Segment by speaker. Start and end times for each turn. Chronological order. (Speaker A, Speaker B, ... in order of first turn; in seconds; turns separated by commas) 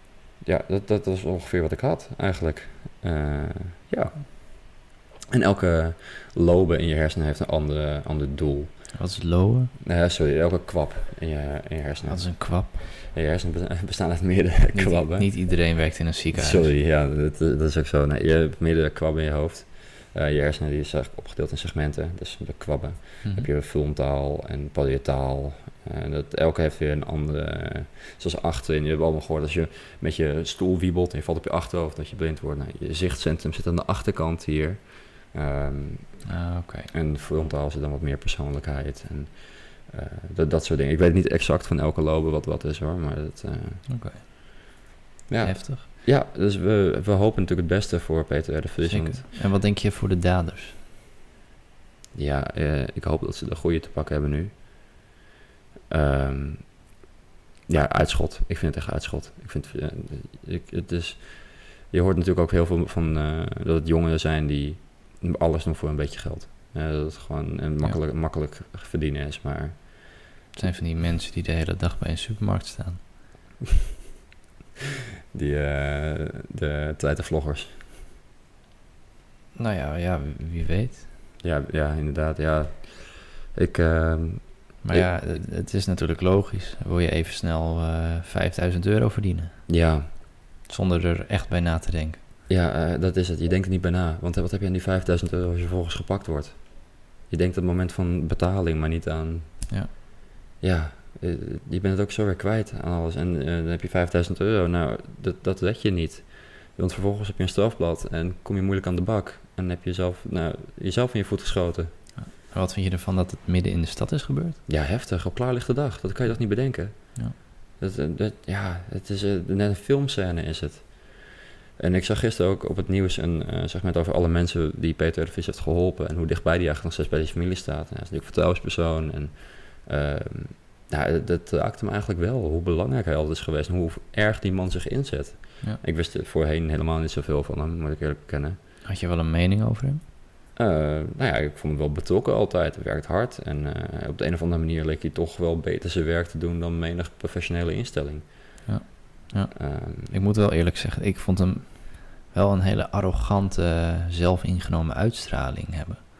Speaker A: 0.4-8.9, Speaker B: 8.9-9.7, Speaker A: 9.8-15.3, Speaker B: 12.1-12.8, Speaker B: 14.7-16.7, Speaker A: 16.3-36.4, Speaker B: 36.3-36.9, Speaker A: 36.9-43.9, Speaker B: 43.9-44.2, Speaker A: 45.3-49.3, Speaker B: 45.4-45.9, Speaker B: 48.8-50.8, Speaker A: 52.1-54.6, Speaker A: 55.9-56.8, Speaker A: 57.7-69.9, Speaker B: 70.5-73.0, Speaker A: 75.3-77.8, Speaker B: 79.6-81.1, Speaker A: 81.4-85.1, Speaker B: 84.8-89.7, Speaker A: 89.7-90.1, Speaker B: 90.7-92.2, Speaker A: 92.5-99.7, Speaker A: 100.6-111.9, Speaker B: 112.2-114.6, Speaker A: 114.7-138.6, Speaker B: 138.9-140.0, Speaker A: 140.6-148.5, Speaker B: 148.7-156.0, Speaker A: 149.5-150.2